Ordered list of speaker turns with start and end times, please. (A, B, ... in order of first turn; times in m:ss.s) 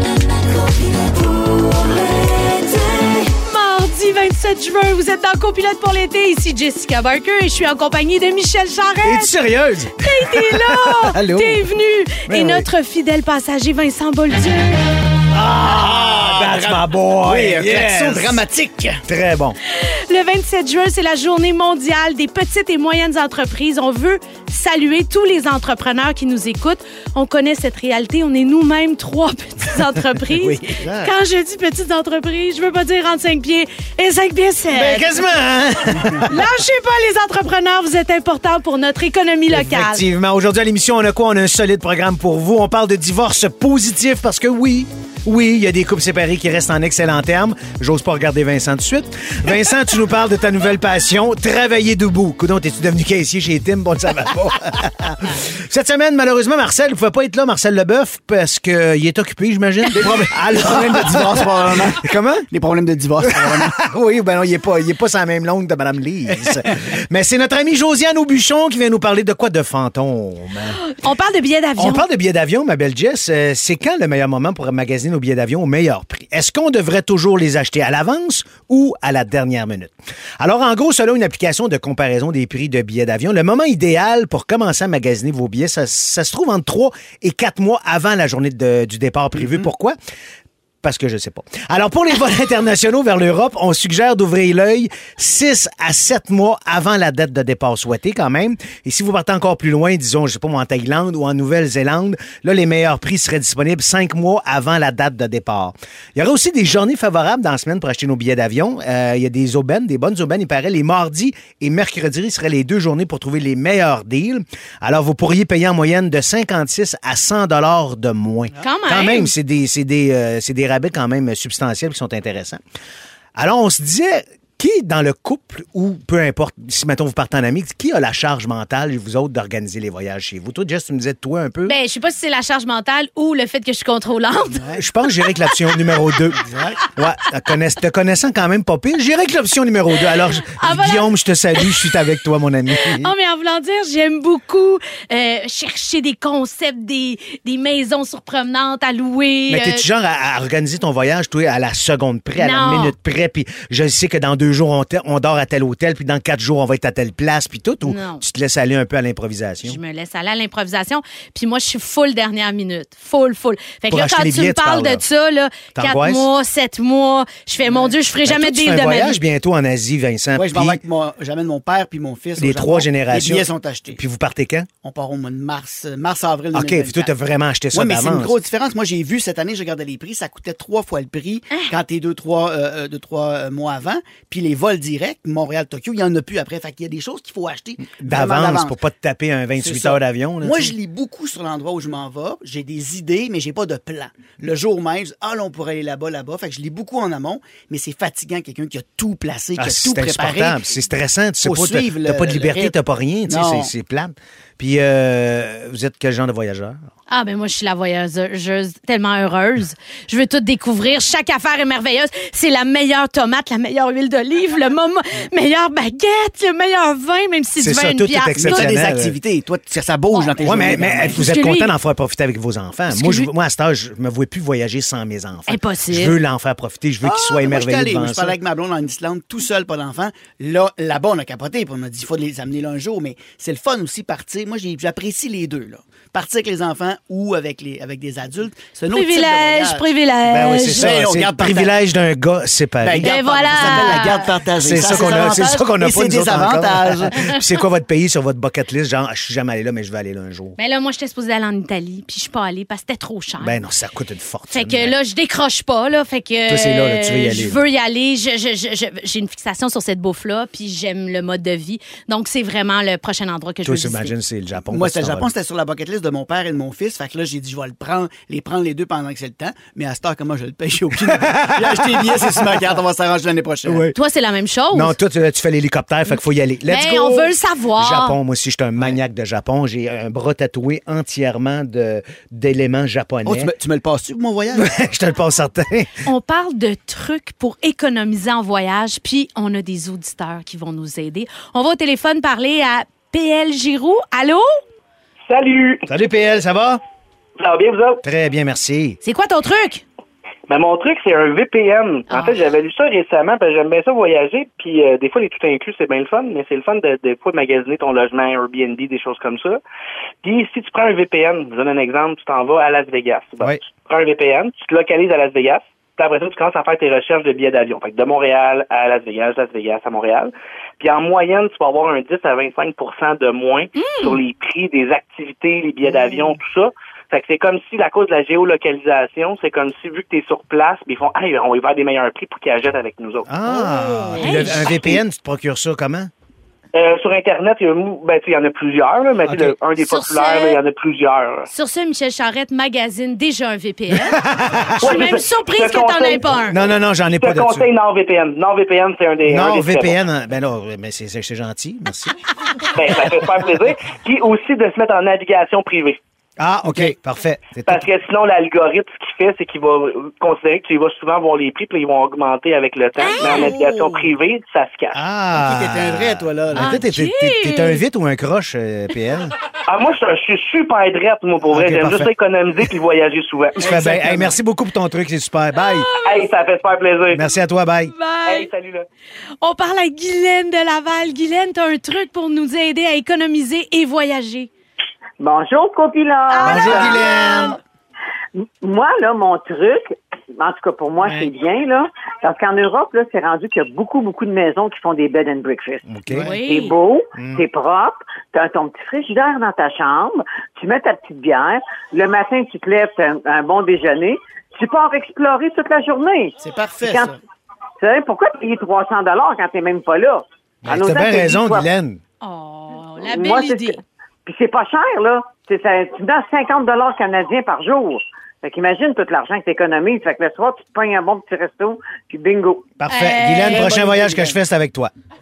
0:01.1-0:09.3 A
0:09.0-0:11.6 B
0:10.0-0:14.9 A
0:12.2-0:12.7 B
0:15.3-0:18.4 B
0:15.6-0:19.0 C
0:19.0-0:19.6 B
0:19.7-0:35.1 A
0:30.2-0:31.1 B
0:34.7-0:36.4 B
0:36.2-0:40.0 A
0:39.5-1:02.4 B
0:59.9-1:03.7 C
1:03.2-1:10.8 B
1:06.3-1:06.8 C
1:10.8-1:12.0 A
1:11.8-1:30.0 B
1:29.4-1:29.7 C
1:30.8-2:02.6 B
1:58.6-1:59.3 A
2:03.3-2:11.8 B
2:11.6-2:14.6 A
2:14.5-2:14.8 C
2:14.7-2:23.1 B
2:16.3-2:16.8 C
2:20.3-2:21.9 A
2:22.7-2:29.8 A
2:29.5-2:39.8 B
2:32.4-2:32.9 A
2:37.8-2:38.2 A
2:39.6-2:49.2 A
2:43.9-2:45.0 B
2:45.7-2:46.3 B
2:47.6-2:47.9 C
2:48.2-2:50.8 B
2:50.3-2:54.0 C
2:52.4-2:54.7 B
2:54.8-2:57.1 C
2:56.5-2:58.4 B
2:57.7-3:08.7 C
3:08.0-3:10.7 B
3:09.6-3:20.6 C
3:19.6-3:26.8 B
3:21.4-3:23.7 C
3:27.1-3:38.7 A
3:37.6-3:39.2 B
3:38.4-3:41.2 C
3:40.1-3:41.7 A
3:40.4-3:48.4 B
3:42.9-3:43.3 A
3:45.5-3:46.2 A
3:47.0-3:59.9 C
3:58.9-4:00.9 A
4:00.3-4:10.6 B
4:00.6-4:01.7 C
4:02.8-4:07.1 C
4:03.0-4:05.7 A
4:10.6-4:13.6 A
4:13.4-4:14.9 B
4:14.5-4:24.1 A
4:16.5-4:17.6 B
4:23.6-4:25.3 B
4:24.7-4:33.9 C
4:31.1-4:32.6 B
4:33.6-4:34.0 B
4:33.9-4:34.9 A
4:34.7-4:43.5 B
4:36.7-4:38.2 A
4:43.2-4:44.8 C
4:44.5-4:46.0 B
4:46.0-4:54.6 A
4:55.3-4:55.9 D
4:55.9-4:56.8 B
4:57.4-4:58.0 D
4:58.0-4:59.0 B
4:59.0-4:59.8 A
5:00.5-5:09.6 D
5:02.1-5:02.4 A
5:10.2-5:33.3 D
5:23.8-5:24.2 A
5:33.3-5:36.1 B
5:34.0-5:34.4 C
5:34.2-5:34.9 A
5:36.7-5:41.5 D
5:39.2-5:39.6 B
5:39.8-5:40.6 A
5:41.5-5:44.2 A
5:43.9-5:45.0 B
5:44.8-5:46.6 A
5:44.8-5:46.3 D
5:46.4-5:47.7 B
5:47.1-5:49.9 D
5:49.2-5:52.2 B
5:52.7-5:56.0 D
5:56.4-5:57.9 B
5:56.6-5:56.9 C
5:57.6-6:05.0 D
6:03.0-6:04.0 A
6:03.3-6:03.6 C
6:04.9-6:09.3 B
6:05.3-6:06.8 C
6:06.5-6:07.8 A
6:09.6-6:13.7 D
6:11.5-6:12.1 B
6:13.6-6:15.9 B
6:13.6-6:14.3 C
6:15.6-6:16.3 A
6:16.0-6:17.2 D
6:17.1-6:17.9 B
6:17.9-6:18.5 A
6:18.2-6:18.8 D
6:19.4-6:24.5 A
6:25.2-6:27.1 E
6:26.3-6:27.5 A
6:26.4-6:27.6 B
6:28.6-6:35.8 E
6:31.0-6:31.3 B
6:35.8-6:36.3 B
6:36.1-6:36.4 C
6:36.2-6:36.7 A
6:36.4-6:47.1 E
6:37.2-6:37.4 B
6:46.4-6:47.2 C
6:47.8-6:51.7 E
6:50.6-6:52.0 B
6:52.2-6:53.8 A
6:53.0-7:02.7 E
7:02.8-7:04.9 B
7:02.9-7:03.7 A
7:03.4-7:04.4 C